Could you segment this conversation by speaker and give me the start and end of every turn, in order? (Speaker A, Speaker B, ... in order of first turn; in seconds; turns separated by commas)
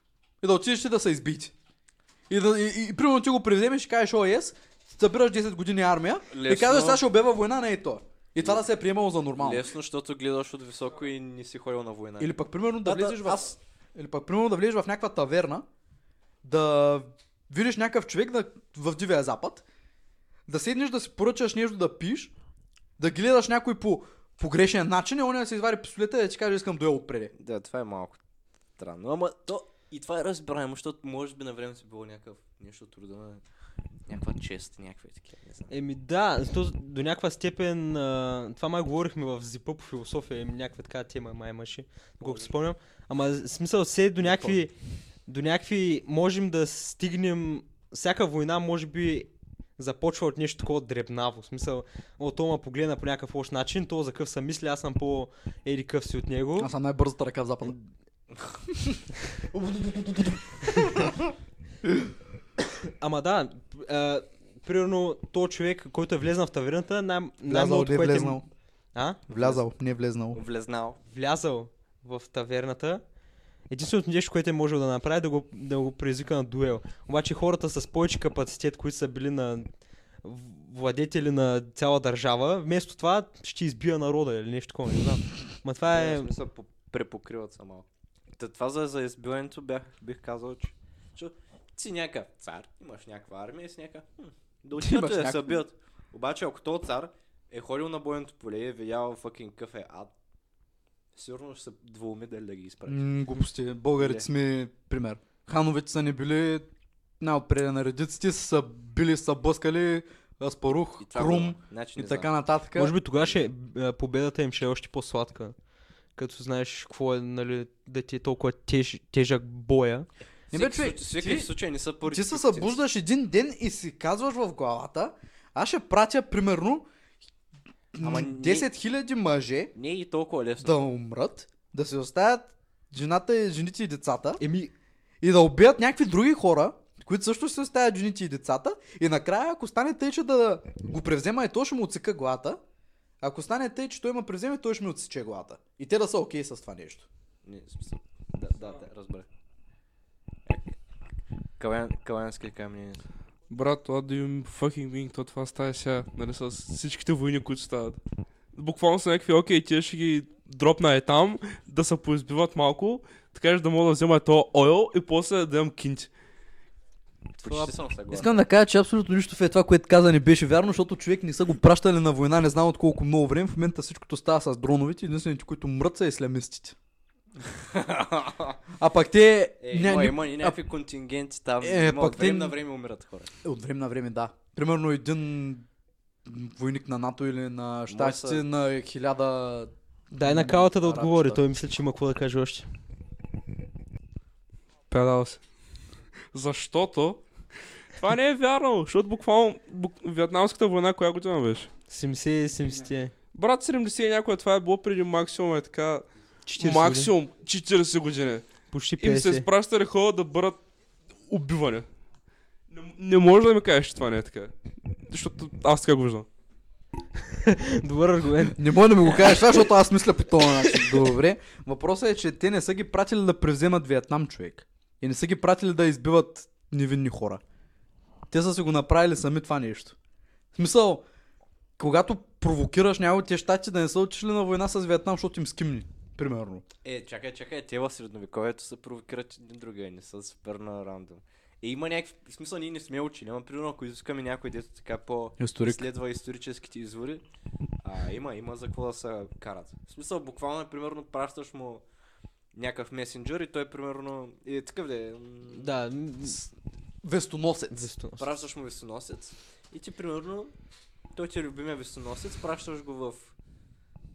Speaker A: 0.4-1.5, Speaker A: 2.3-9.7, Speaker B: 6.3-7.0, Speaker B: 9.4-13.5, Speaker A: 12.2-15.6, Speaker A: 16.4-19.6, Speaker A: 20.5-22.3, Speaker A: 23.0-27.3, Speaker B: 27.3-28.2, Speaker B: 28.8-33.4, Speaker B: 34.1-35.7, Speaker C: 35.7-44.7, Speaker B: 42.2-42.5, Speaker B: 44.2-44.5, Speaker C: 45.2-56.7, Speaker A: 56.6-57.8, Speaker A: 58.7-61.2, Speaker C: 62.8-68.4, Speaker A: 67.4-68.4, Speaker C: 68.9-69.2, Speaker A: 69.3-70.4, Speaker B: 69.3-69.6, Speaker B: 70.3-71.0, Speaker C: 71.1-73.0, Speaker C: 73.7-79.7, Speaker C: 80.2-86.3, Speaker B: 85.8-100.1, Speaker A: 94.8-95.6, Speaker B: 101.1-103.1, Speaker A: 102.9-106.7, Speaker B: 104.0-104.2, Speaker A: 107.2-112.9, Speaker B: 111.0-112.3, Speaker C: 112.7-115.5, Speaker C: 116.2-120.1, Speaker A: 120.5-121.5, Speaker B: 120.5-122.8, Speaker A: 122.1-126.8, Speaker A: 127.9-129.7, Speaker B: 128.0-128.7, Speaker B: 129.7-130.8, Speaker A: 130.6-134.4, Speaker C: 134.4-134.7, Speaker A: 135.2-142.6, Speaker A: 143.2-147.1, Speaker B: 147.4-149.2, Speaker B: 150.4-150.7, Speaker B: 151.6-153.0, Speaker D: 153.5-158.0, Speaker D: 158.5-166.1, Speaker B: 167.4-168.4, Speaker C: 167.4-167.7, Speaker A: 168.1-176.8, Speaker B: 177.5-178.6, Speaker A: 178.8-180.6, Speaker B: 179.6-183.3, Speaker A: 181.6-182.6, Speaker A: 183.4-185.7, Speaker A: 186.2-191.4, Speaker B: 187.9-188.4, Speaker C: 190.1-192.7, Speaker D: 194.9-195.4, Speaker D: 196.3-197.2, Speaker D: 198.0-201.7, Speaker C: 201.9-203.1, Speaker D: 203.3-210.6, Speaker C: 206.5-207.1, Speaker C: 208.7-209.5, Speaker D: 211.3-211.9, Speaker D: 212.7-214.5, Speaker D: 215.1-216.3, Speaker C: 217.1-219.4, Speaker A: 218.6-227.4, Speaker C: 220.4-221.1, Speaker A: 228.3-229.9, Speaker A: 230.5-231.0, Speaker A: 231.8-236.6, Speaker B: 236.8-247.2, Speaker A: 245.4-245.8, Speaker B: 247.8-251.8, Speaker B: 252.5-255.7, Speaker C: 255.5-256.4, Speaker A: 257.0-257.9, Speaker C: 257.7-258.3, Speaker B: 258.2-260.5, Speaker B: 261.1-263.3